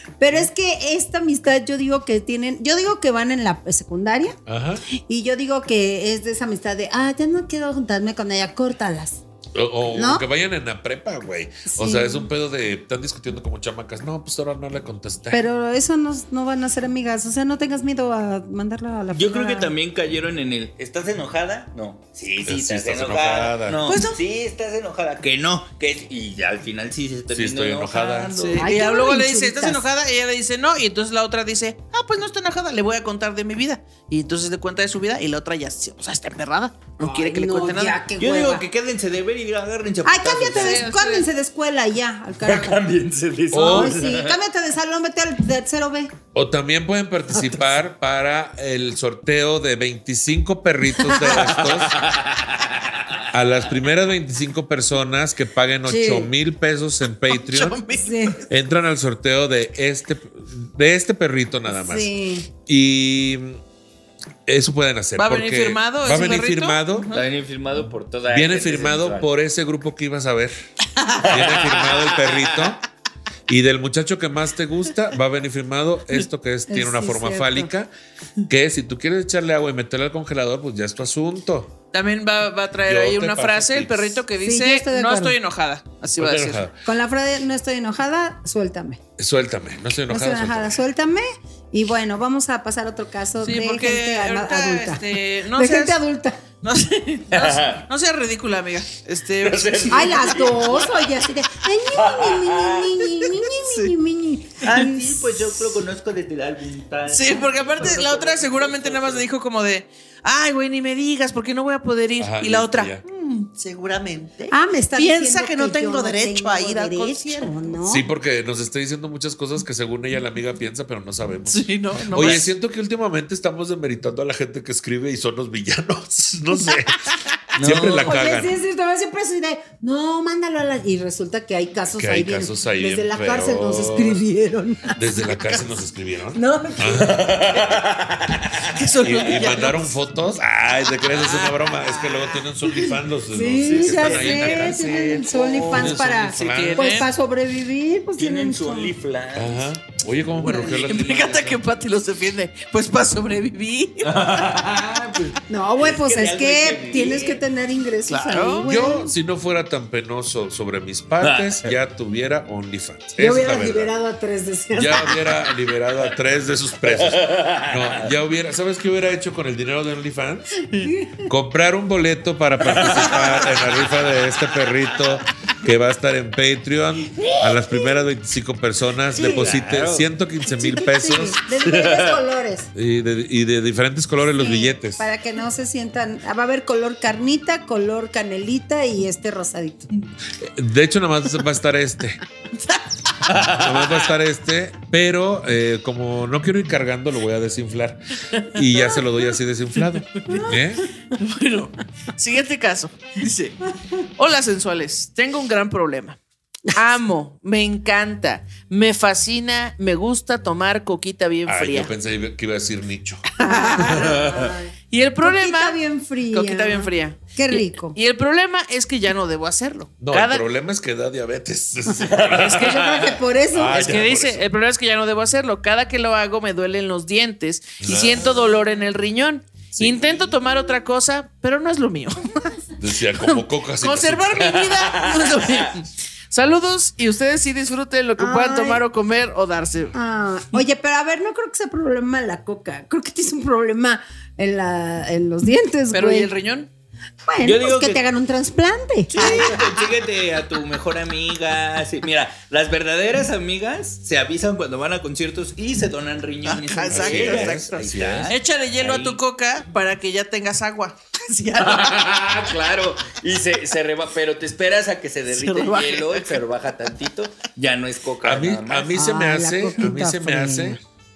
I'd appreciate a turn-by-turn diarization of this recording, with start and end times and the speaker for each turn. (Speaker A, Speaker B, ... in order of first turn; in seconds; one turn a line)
Speaker A: 0.2-4.4
Speaker B: 4.5-4.8
Speaker A: 4.9-9.2
Speaker B: 9.6-15.4
Speaker A: 9.9-10.2
Speaker A: 11.7-12.3
Speaker A: 15.3-19.7
Speaker C: 19.1-28.7
Speaker B: 22.5-24.0
Speaker D: 23.9-24.2
Speaker B: 27.3-28.4
Speaker D: 28.4-38.0
Speaker A: 28.6-29.9
Speaker A: 37.0-38.7
Speaker C: 38.2-40.8
Speaker A: 40.0-42.9
Speaker D: 40.5-41.3
Speaker C: 42.5-44.4
Speaker B: 43.5-44.0
Speaker A: 43.5-46.1
Speaker B: 46.3-52.0
Speaker A: 47.3-47.7
Speaker C: 51.3-53.2
Speaker B: 53.3-57.8
Speaker A: 55.9-56.3
Speaker D: 57.3-58.4
Speaker A: 57.9-58.4
Speaker B: 58.5-62.1
Speaker A: 61.7-62.5
Speaker B: 62.6-63.6
Speaker B: 64.5-67.1
Speaker D: 65.2-67.2
Speaker C: 67.1-69.3
Speaker B: 68.3-70.5
Speaker C: 71.2-72.7
Speaker B: 71.3-72.8
Speaker B: 73.5-77.9
Speaker A: 76.7-77.7
Speaker B: 78.5-81.7
Speaker D: 81.9-86.7
Speaker B: 82.9-84.2
Speaker A: 84.4-85.4
Speaker B: 86.2-86.8
Speaker A: 86.8-89.0
Speaker B: 89.2-90.8
Speaker A: 90.1-96.4
Speaker D: 93.4-96.0
Speaker D: 96.6-100.5
Speaker C: 97.3-97.8
Speaker C: 99.4-100.9
Speaker A: 99.9-105.4
Speaker C: 101.9-102.9
Speaker D: 103.6-103.9
Speaker C: 104.6-109.2
Speaker D: 107.1-117.8
Speaker B: 112.2-113.0
Speaker C: 113.8-114.4
Speaker A: 114.5-118.1
Speaker B: 117.9-128.5
Speaker D: 121.5-122.5
Speaker C: 127.6-128.2
Speaker A: 127.7-135.8
Speaker B: 131.9-134.2
Speaker B: 134.9-137.3
Speaker A: 136.3-137.2
Speaker C: 137.1-138.8
Speaker D: 138.7-140.0
Speaker B: 139.0-147.1
Speaker D: 141.2-142.3
Speaker A: 143.3-148.9
Speaker D: 143.7-144.7
Speaker C: 145.2-146.0
Speaker D: 146.3-147.1
Speaker C: 148.2-149.7
Speaker B: 149.3-151.6
Speaker D: 150.4-154.6
Speaker C: 150.4-150.7
Speaker C: 154.0-157.4
Speaker A: 155.5-159.2
Speaker D: 158.1-158.7
Speaker B: 158.6-163.9
Speaker C: 161.2-161.7
Speaker A: 163.2-165.3
Speaker B: 164.8-170.7
Speaker C: 166.9-168.1
Speaker A: 170.8-171.3
Speaker B: 171.3-181.4
Speaker C: 172.6-174.0
Speaker C: 179.2-180.1
Speaker A: 180.5-182.7
Speaker C: 181.7-182.2
Speaker B: 182.8-185.1
Speaker A: 184.4-189.9
Speaker B: 190.4-192.2
Speaker C: 193.3-194.0
Speaker B: 193.4-200.9
Speaker D: 198.4-199.1
Speaker D: 199.8-200.6
Speaker D: 201.1-203.6
Speaker D: 204.2-206.2
Speaker D: 206.7-211.9
Speaker B: 211.5-213.2
Speaker D: 213.4-214.3
Speaker A: 213.4-218.0
Speaker C: 214.2-214.5
Speaker D: 214.9-215.8
Speaker D: 216.3-220.5
Speaker B: 220.0-222.7
Speaker A: 222.1-224.0
Speaker C: 222.1-222.9
Speaker D: 222.2-222.9
Speaker B: 223.5-224.4
Speaker D: 223.7-232.5
Speaker B: 227.8-228.5
Speaker B: 229.8-230.3
Speaker B: 232.8-234.7
Speaker D: 233.3-239.9
Speaker C: 234.5-235.8
Speaker A: 238.2-238.8
Speaker A: 239.9-246.3
Speaker D: 245.9-246.7
Speaker A: 247.3-249.5
Speaker C: 247.4-248.0
Speaker C: 249.1-259.2
Speaker D: 249.2-249.8
Speaker D: 256.4-262.3
Speaker B: 256.9-258.3
Speaker C: 261.6-269.0
Speaker D: 265.3-266.4
Speaker B: 268.2-270.8
Speaker A: 268.9-270.8